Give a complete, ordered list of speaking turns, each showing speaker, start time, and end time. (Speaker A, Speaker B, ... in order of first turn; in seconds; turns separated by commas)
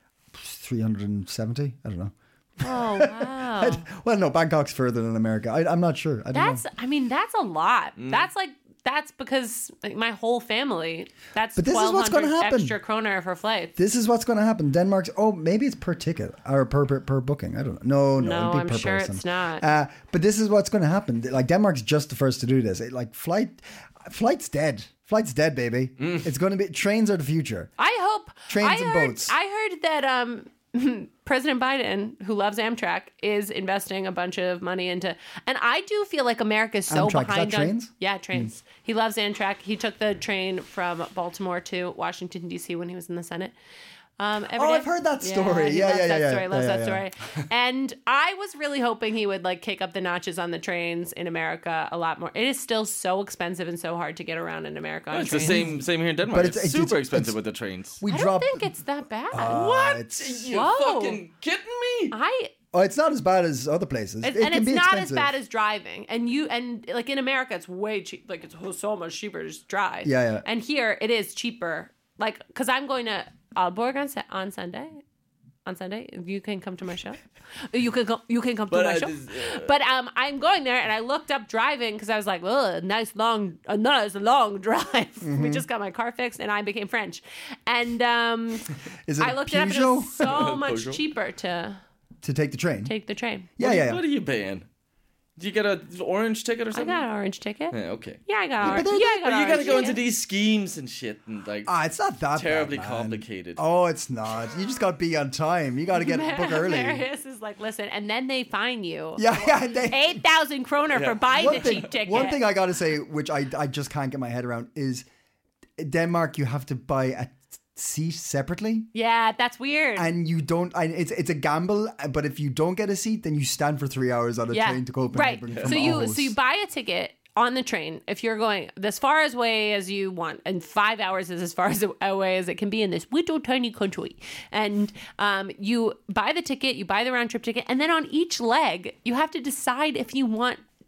Speaker A: 0.3-6.7, Speaker B: 2.6-3.8, Speaker B: 6.3-13.8, Speaker C: 8.0-8.3, Speaker A: 11.6-12.8, Speaker A: 13.8-27.7, Speaker B: 18.2-19.6, Speaker C: 26.0-26.3, Speaker B: 27.8-43.5, Speaker A: 28.5-29.3, Speaker A: 36.9-38.5, Speaker B: 44.2-55.7, Speaker A: 44.5-47.0, Speaker C: 55.1-58.0, Speaker A: 55.4-57.4, Speaker A: 58.0-58.7, Speaker B: 58.1-61.2, Speaker A: 59.3-60.5, Speaker C: 60.2-62.1, Speaker B: 62.1-62.5, Speaker A: 62.7-65.3, Speaker B: 64.2-75.0, Speaker A: 70.0-70.5, Speaker B: 75.7-77.2, Speaker B: 77.7-91.8, Speaker C: 78.7-79.7, Speaker A: 85.2-85.7, Speaker A: 89.1-90.3, Speaker C: 90.2-91.0, Speaker A: 92.2-92.9, Speaker B: 92.8-93.5, Speaker A: 93.6-94.0, Speaker C: 93.6-94.7, Speaker C: 95.4-97.0, Speaker B: 96.7-100.0, Speaker C: 97.7-101.7, Speaker A: 98.6-99.8, Speaker A: 101.7-107.0, Speaker C: 102.3-103.6, Speaker B: 105.9-112.4, Speaker A: 109.2-110.2, Speaker C: 110.9-111.9, Speaker A: 111.3-115.1, Speaker A: 115.8-118.9, Speaker B: 118.9-120.1, Speaker A: 120.0-126.3, Speaker B: 124.5-140.6, Speaker C: 125.5-126.0